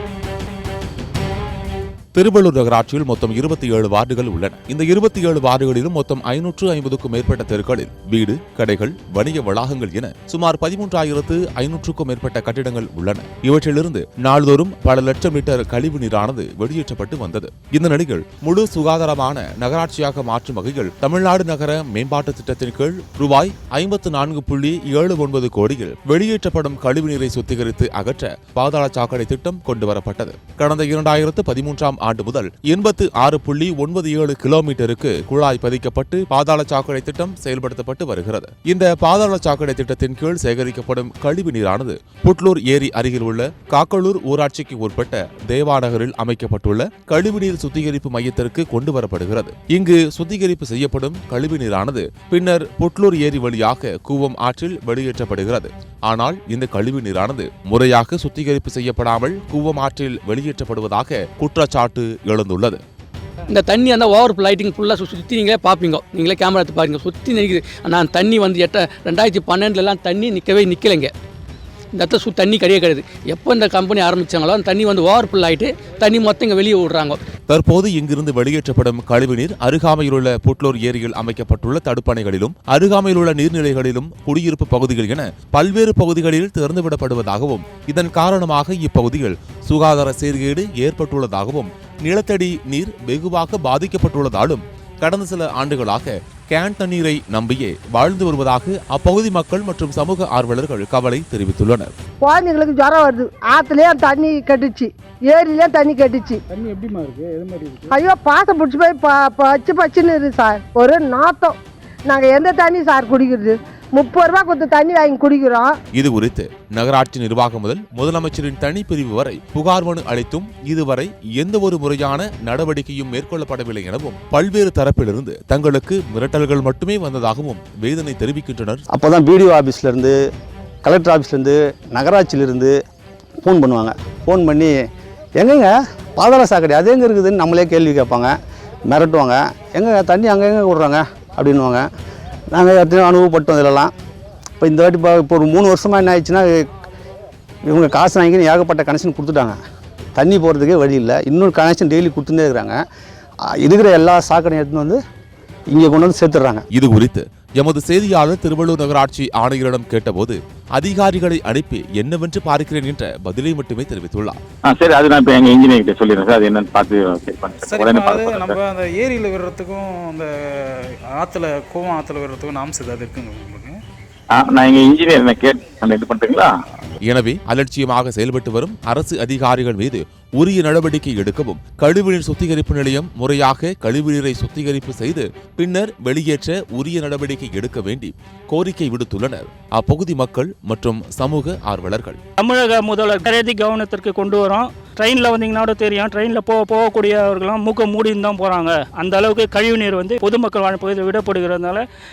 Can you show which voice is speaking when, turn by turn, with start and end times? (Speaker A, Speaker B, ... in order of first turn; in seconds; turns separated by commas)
Speaker A: 2.1-62.8, Speaker B: 63.5-71.1, Speaker B: 71.9-77.2, Speaker A: 77.5-101.9, Speaker C: 102.2-106.4, Speaker D: 106.5-107.9, Speaker C: 107.9-115.7, Speaker A: 115.9-128.8, Speaker E: 128.9-130.1, Speaker E: 130.8-132.7, Speaker E: 133.4-134.7, Speaker E: 135.4-138.3, Speaker E: 138.9-141.8, Speaker E: 142.5-143.9, Speaker E: 144.6-146.7, Speaker E: 147.7-149.6, Speaker E: 150.2-152.8, Speaker E: 153.6-155.0, Speaker E: 155.7-156.6, Speaker A: 156.7-164.4, Speaker F: 164.6-168.6, Speaker D: 167.6-173.8, Speaker F: 174.3-176.5, Speaker A: 177.1-192.2, Speaker G: 192.4-201.8